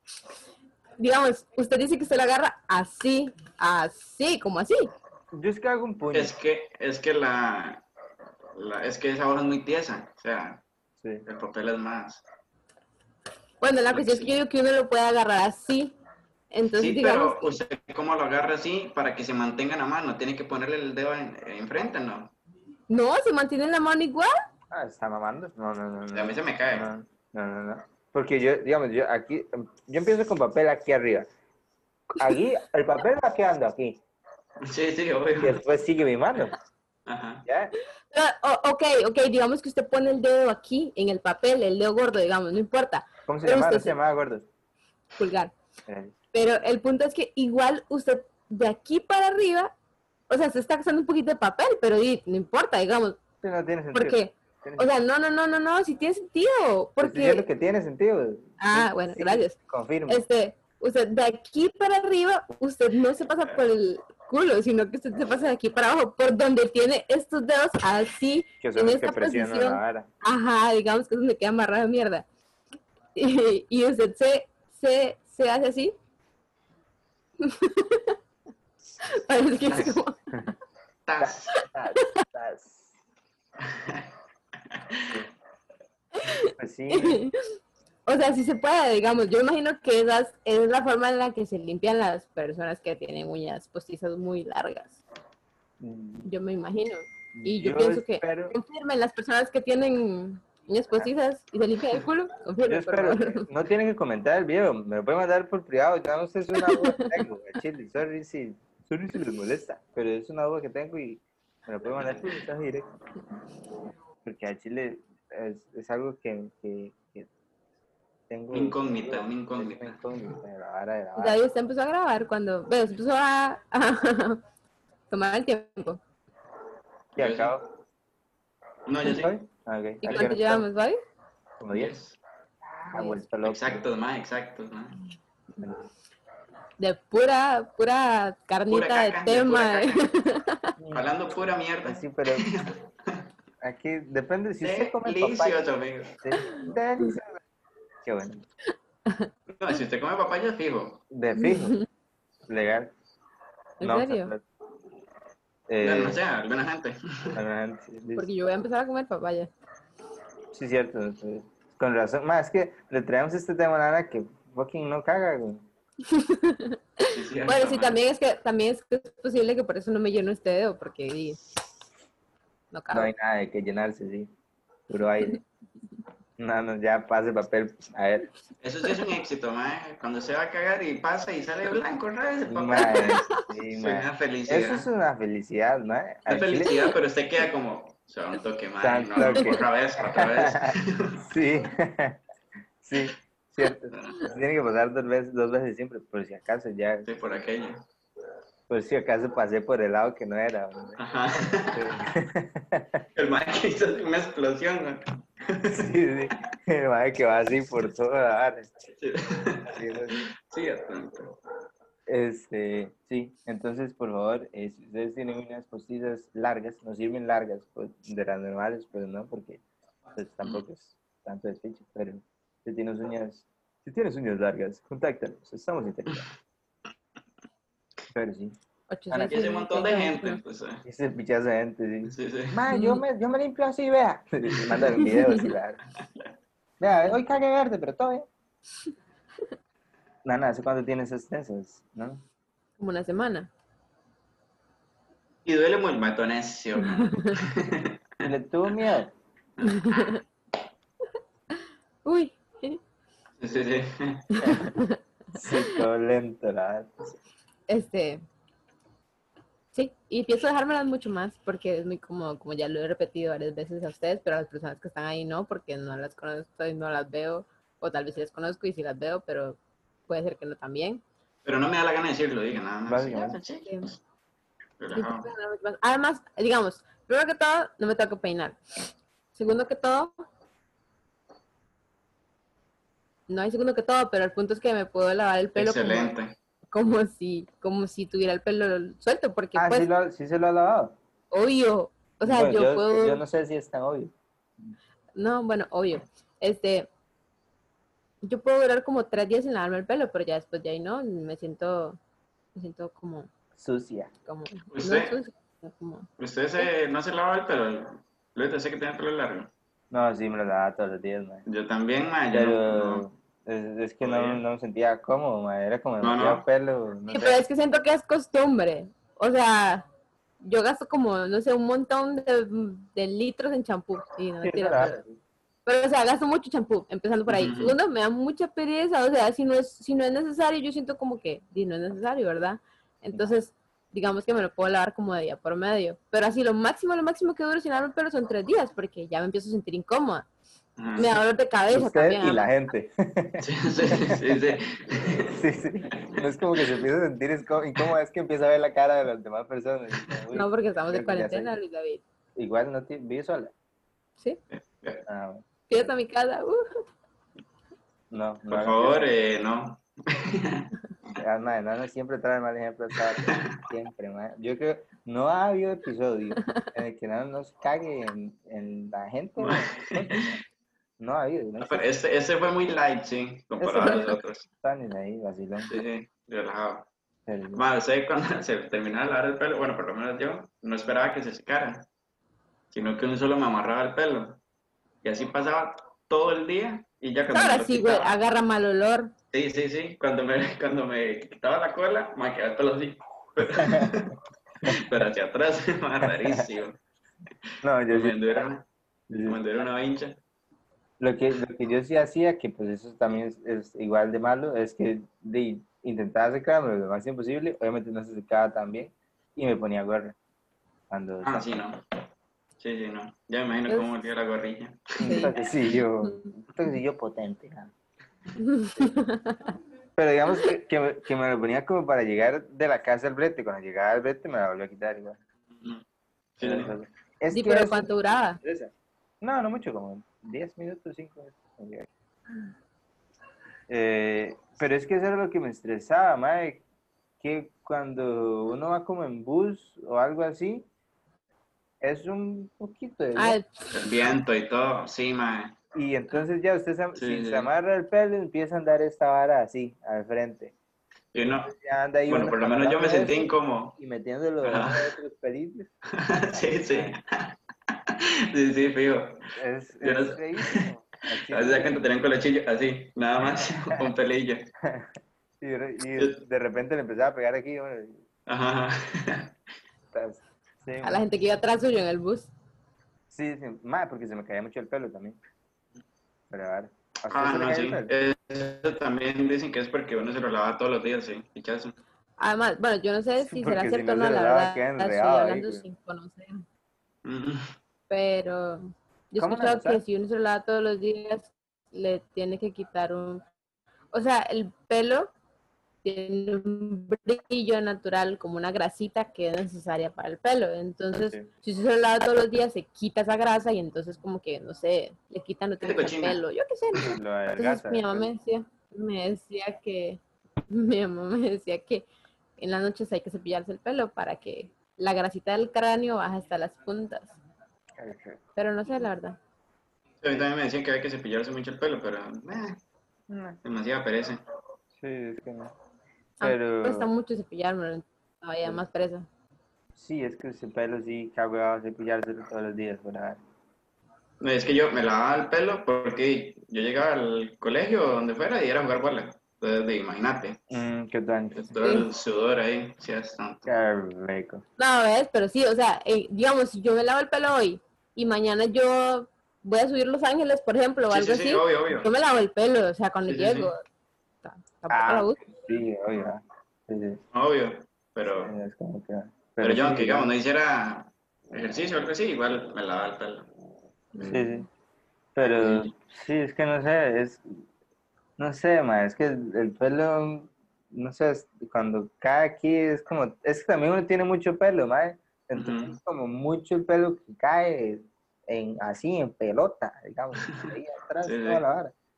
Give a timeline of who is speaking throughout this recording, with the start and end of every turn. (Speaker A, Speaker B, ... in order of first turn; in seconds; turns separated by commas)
Speaker A: 1.0-4.9, Speaker B: 5.3-6.3, Speaker C: 6.1-7.8, Speaker C: 8.5-10.6, Speaker B: 11.0-11.2, Speaker C: 11.2-12.2, Speaker A: 13.6-15.9, Speaker C: 13.9-14.3, Speaker A: 16.5-17.5, Speaker C: 16.8-22.3, Speaker A: 22.9-24.3, Speaker B: 24.7-31.3, Speaker C: 26.1-26.9, Speaker B: 32.1-34.0, Speaker C: 34.6-35.6, Speaker B: 35.4-36.5, Speaker C: 37.1-37.4, Speaker B: 37.5-37.7, Speaker A: 38.1-44.0, Speaker B: 43.3-44.5, Speaker A: 45.2-45.5, Speaker B: 45.9-46.2, Speaker A: 46.3-49.7, Speaker A: 50.3-53.2, Speaker B: 53.4-54.9, Speaker A: 53.9-57.4, Speaker B: 57.0-60.2, Speaker A: 58.6-59.5, Speaker A: 60.1-72.2, Speaker B: 68.6-70.1, Speaker A: 73.2-75.9, Speaker A: 77.4-78.2, Speaker A: 79.1-80.2, Speaker C: 81.0-81.6, Speaker B: 81.2-82.9, Speaker A: 81.6-82.2, Speaker C: 83.7-84.0, Speaker C: 84.7-85.2, Speaker A: 86.1-87.3, Speaker B: 86.6-87.2, Speaker A: 88.0-95.0, Speaker B: 95.8-96.3, Speaker A: 96.2-103.5, Speaker B: 97.3-98.5, Speaker B: 102.6-112.9, Speaker A: 106.5-107.2, Speaker B: 114.2-117.3, Speaker B: 118.3-121.4, Speaker C: 118.5-120.3, Speaker A: 121.2-124.4, Speaker A: 125.1-126.0, Speaker C: 127.2-127.5, Speaker B: 127.2-127.6, Speaker C: 128.8-129.3, Speaker B: 129.0-130.7, Speaker A: 130.0-131.0, Speaker B: 131.6-131.9, Speaker C: 131.7-132.2, Speaker B: 132.6-133.8, Speaker A: 132.9-133.2, Speaker C: 133.4-135.0, Speaker B: 135.6-135.9, Speaker A: 136.8-140.7, Speaker C: 138.7-140.1, Speaker B: 140.8-141.1, Speaker C: 140.9-143.2, Speaker B: 141.8-142.5, Speaker B: 143.6-145.7, Speaker C: 144.6-146.2, Speaker B: 146.2-147.4, Speaker A: 146.4-146.7, Speaker B: 148.0-148.4, Speaker C: 149.5-151.0, Speaker B: 151.1-151.8, Speaker A: 151.4-151.8, Speaker B: 152.5-152.9, Speaker A: 153.8-154.3, Speaker B: 153.8-154.4, Speaker B: 155.7-156.2, Speaker C: 155.8-157.4, Speaker B: 157.3-158.3, Speaker A: 158.2-159.5, Speaker B: 160.5-165.7, Speaker A: 166.1-171.4, Speaker C: 167.1-168.0, Speaker A: 172.7-173.1, Speaker B: 172.9-174.3, Speaker B: 174.9-175.4, Speaker B: 176.4-178.3, Speaker C: 178.6-184.9, Speaker B: 182.5-186.7, Speaker A: 182.8-183.5, Speaker C: 186.3-191.2, Speaker B: 188.8-192.2, Speaker A: 189.2-189.5, Speaker B: 192.8-197.1, Speaker C: 193.9-194.2, Speaker C: 197.0-197.8, Speaker B: 198.7-201.0, Speaker C: 201.0-202.0, Speaker B: 201.7-203.1, Speaker C: 203.2-205.9, Speaker B: 205.7-208.7, Speaker C: 208.9-211.3, Speaker B: 209.7-210.2, Speaker B: 212.1-219.6, Speaker B: 220.1-226.2, Speaker B: 228.1-228.6, Speaker A: 228.9-230.4, Speaker B: 229.1-229.4, Speaker C: 229.2-230.8, Speaker B: 230.8-235.8, Speaker C: 232.1-232.6, Speaker A: 232.7-233.0, Speaker C: 234.5-234.8, Speaker A: 235.0-235.5, Speaker B: 236.8-238.3, Speaker B: 240.2-242.2, Speaker A: 242.8-243.5, Speaker C: 245.4-248.2, Speaker A: 246.9-247.3, Speaker B: 248.2-249.1, Speaker C: 249.6-249.9, Speaker A: 249.6-250.2, Speaker A: 251.5-252.8, Speaker C: 253.4-254.5, Speaker A: 254.4-255.8, Speaker B: 254.4-254.7, Speaker B: 255.3-257.1, Speaker A: 257.7-258.2, Speaker A: 259.7-271.0, Speaker C: 271.4-274.0, Speaker B: 272.9-273.4, Speaker A: 273.6-273.9, Speaker C: 274.8-275.3, Speaker A: 274.9-278.6, Speaker A: 279.3-280.1, Speaker A: 283.3-286.1, Speaker C: 285.6-286.4, Speaker A: 286.7-289.9, Speaker B: 289.5-290.9, Speaker A: 291.3-293.2, Speaker B: 292.2-294.7, Speaker A: 295.1-296.9, Speaker A: 298.2-302.0, Speaker A: 302.5-303.3, Speaker B: 303.6-304.1, Speaker A: 304.2-306.7, Speaker C: 304.7-305.1, Speaker C: 306.2-309.5, Speaker B: 309.9-311.4, Speaker C: 311.4-313.0, Speaker B: 312.3-317.4, Speaker C: 314.0-314.4, Speaker C: 316.0-316.4, Speaker A: 317.1-319.9, Speaker A: 320.4-325.0, Speaker B: 324.4-325.2, Speaker A: 325.6-340.2, Speaker C: 327.3-327.8, Speaker C: 340.8-341.1, Speaker A: 341.0-342.5, Speaker B: 341.7-344.6, Speaker C: 343.4-345.4, Speaker B: 345.2-351.5, Speaker C: 346.0-346.8, Speaker A: 350.3-352.0, Speaker B: 352.4-353.5, Speaker C: 354.5-355.0, Speaker B: 355.1-355.4, Speaker A: 355.7-356.7, Speaker B: 358.1-359.1, Speaker C: 358.5-360.7, Speaker B: 361.1-370.4, Speaker C: 363.1-363.6, Speaker A: 366.4-366.7, Speaker C: 369.4-370.4, Speaker B: 371.0-371.8, Speaker C: 371.6-374.5, Speaker B: 373.6-375.7, Speaker C: 375.6-376.9, Speaker B: 377.3-377.6, Speaker C: 377.5-381.9, Speaker C: 382.7-384.4, Speaker C: 385.0-388.1, Speaker A: 387.3-389.1, Speaker C: 389.3-396.8, Speaker B: 393.4-393.9, Speaker B: 396.0-396.4, Speaker B: 397.6-398.4, Speaker C: 397.9-398.6, Speaker B: 399.1-399.4, Speaker C: 399.2-400.2, Speaker B: 401.0-410.1, Speaker B: 410.9-411.6, Speaker C: 411.2-411.8, Speaker C: 412.6-415.3, Speaker B: 415.0-417.7, Speaker A: 415.0-415.3, Speaker A: 418.4-419.5, Speaker B: 420.0-425.2, Speaker C: 425.5-425.8, Speaker C: 426.4-426.7, Speaker B: 426.4-431.9, Speaker A: 427.3-428.4, Speaker B: 433.7-436.6, Speaker B: 437.2-440.6, Speaker B: 441.8-443.4, Speaker A: 443.1-444.0, Speaker C: 443.7-445.5, Speaker B: 445.7-450.5, Speaker C: 446.9-447.5, Speaker C: 451.1-451.5, Speaker B: 451.2-455.7, Speaker C: 452.1-453.8, Speaker C: 454.4-454.9, Speaker C: 455.9-457.4, Speaker B: 456.3-457.0, Speaker C: 457.9-459.2, Speaker B: 459.3-461.8, Speaker C: 459.8-464.5, Speaker B: 464.6-468.0, Speaker C: 468.3-469.3, Speaker B: 469.9-471.0, Speaker A: 470.8-472.3, Speaker B: 473.1-475.2, Speaker B: 476.3-477.9, Speaker C: 477.1-481.8, Speaker A: 482.2-486.4, Speaker B: 483.2-485.6, Speaker C: 487.0-487.5, Speaker A: 487.9-493.2, Speaker B: 489.2-489.8, Speaker A: 493.9-495.1, Speaker A: 495.8-511.9, Speaker B: 500.9-501.3, Speaker C: 505.6-506.2, Speaker B: 506.8-508.1, Speaker A: 512.4-517.2, Speaker B: 517.8-518.2, Speaker A: 518.4-519.2, Speaker C: 520.0-522.6, Speaker B: 523.1-523.4, Speaker C: 523.4-524.2, Speaker B: 524.8-525.5, Speaker B: 526.2-526.9, Speaker A: 526.2-529.1, Speaker B: 529.8-533.2, Speaker C: 534.2-540.4, Speaker B: 540.5-541.6, Speaker C: 541.3-543.5, Speaker A: 541.6-541.9, Speaker B: 543.5-544.4, Speaker A: 544.6-553.6, Speaker C: 550.9-551.9, Speaker C: 553.1-553.5, Speaker A: 554.2-555.2, Speaker B: 554.7-557.0, Speaker C: 557.1-558.3, Speaker B: 558.0-560.1, Speaker C: 559.4-563.3, Speaker A: 564.0-564.4, Speaker B: 564.0-564.5, Speaker B: 565.1-567.3, Speaker C: 565.2-565.7, Speaker B: 568.2-581.7, Speaker C: 575.4-575.8, Speaker C: 580.2-581.4